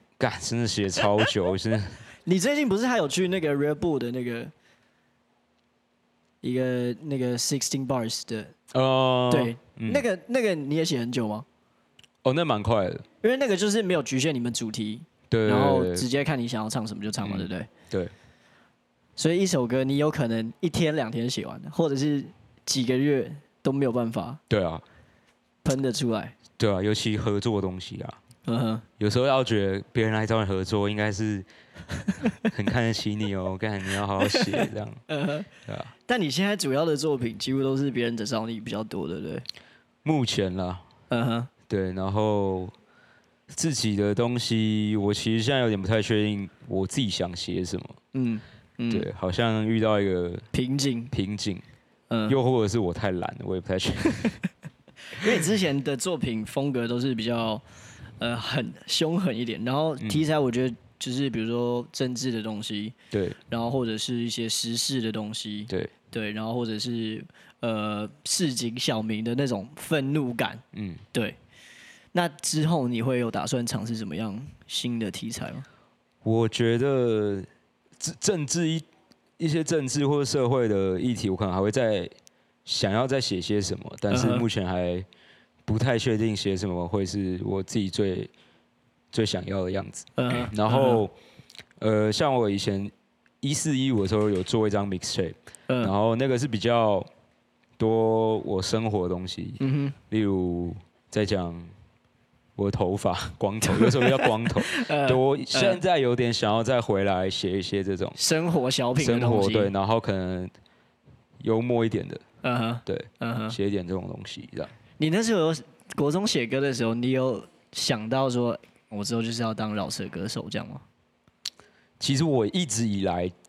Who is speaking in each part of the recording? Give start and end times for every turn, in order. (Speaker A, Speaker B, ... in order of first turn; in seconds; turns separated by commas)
Speaker A: 0.2-2.0, Speaker B: 2.2-4.5, Speaker B: 6.4-8.5, Speaker A: 8.7-10.0, Speaker B: 9.3-11.4, Speaker A: 12.2-13.0, Speaker B: 13.2-17.7, Speaker A: 15.3-16.1, Speaker A: 17.2-18.1, Speaker B: 19.2-24.4, Speaker A: 24.5-24.8, Speaker B: 25.6-26.3, Speaker A: 26.6-28.2, Speaker B: 28.5-28.9, Speaker A: 29.0-31.5, Speaker A: 32.4-35.0, Speaker B: 34.2-35.5, Speaker A: 35.6-35.9, Speaker B: 36.1-39.4, Speaker A: 40.0-40.8, Speaker B: 41.1-41.5, Speaker A: 41.7-42.7, Speaker A: 43.5-48.0, Speaker B: 48.1-49.1, Speaker A: 48.9-50.5, Speaker B: 50.5-51.1, Speaker A: 51.1-51.6, Speaker B: 52.1-52.4, Speaker A: 52.3-54.4, Speaker B: 55.1-57.6, Speaker B: 58.2-62.9, Speaker A: 63.1-63.4, Speaker B: 63.5-70.6, Speaker A: 70.7-71.0, Speaker B: 72.1-75.6, Speaker A: 76.2-77.5, Speaker A: 78.0-78.8, Speaker A: 79.4-82.1, Speaker A: 82.6-85.1, Speaker B: 84.1-84.5, Speaker A: 85.7-88.3, Speaker A: 89.1-91.1, Speaker B: 90.2-91.0, Speaker A: 91.8-97.1, Speaker A: 97.8-101.7, Speaker B: 99.6-100.0, Speaker A: 102.6-108.2, Speaker B: 103.7-105.8, Speaker B: 108.2-109.7, Speaker A: 109.0-110.5, Speaker A: 111.4-112.2, Speaker B: 112.4-113.5, Speaker A: 112.8-114.7, Speaker B: 115.0-120.8, Speaker A: 122.0-123.3